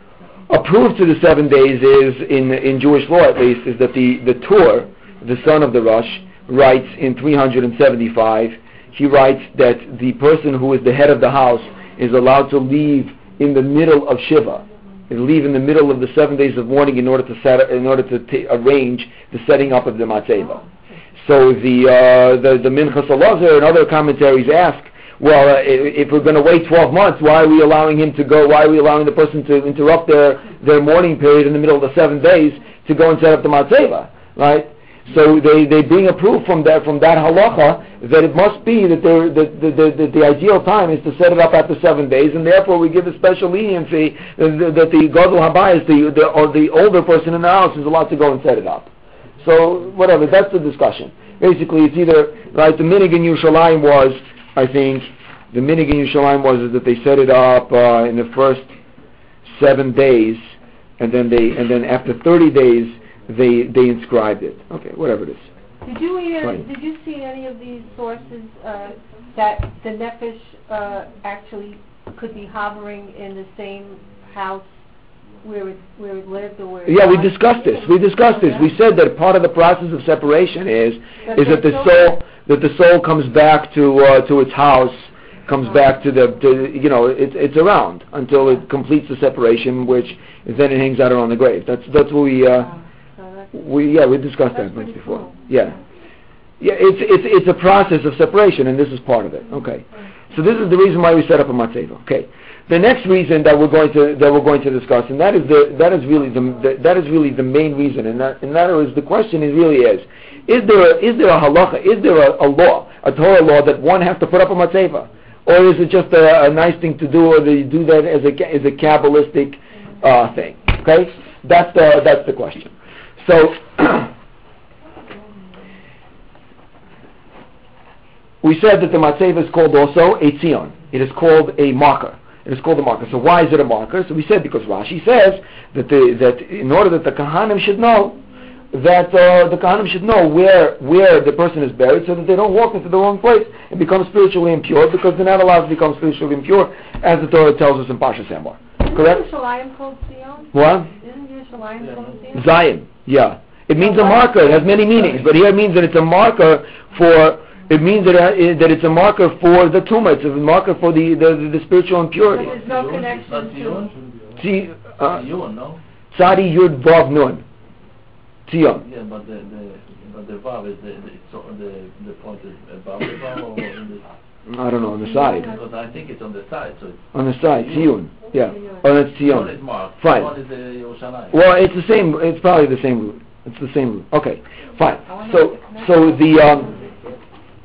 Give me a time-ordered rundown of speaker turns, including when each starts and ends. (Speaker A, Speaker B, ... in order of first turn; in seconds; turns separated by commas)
Speaker A: 0.5-20.6, Speaker A: 21.2-58.7, Speaker A: 59.4-65.5, Speaker B: 65.8-74.8, Speaker B: 75.4-78.7, Speaker A: 76.8-92.7, Speaker B: 81.2-82.1, Speaker B: 93.2-93.5, Speaker A: 93.5-95.8, Speaker B: 94.5-95.6, Speaker A: 96.6-124.1, Speaker A: 128.4-138.2, Speaker A: 138.7-149.2, Speaker B: 148.8-152.6, Speaker A: 150.5-150.9, Speaker A: 152.3-162.5, Speaker B: 153.8-155.2, Speaker B: 162.3-163.9, Speaker C: 162.3-163.9, Speaker A: 164.4-165.3, Speaker C: 165.0-165.8, Speaker A: 166.1-167.4, Speaker A: 168.5-168.8, Speaker C: 168.8-174.0, Speaker A: 174.5-175.6, Speaker B: 175.1-175.4, Speaker C: 175.3-177.9, Speaker A: 177.1-180.3, Speaker C: 179.2-181.4, Speaker A: 181.3-186.7, Speaker B: 185.1-187.0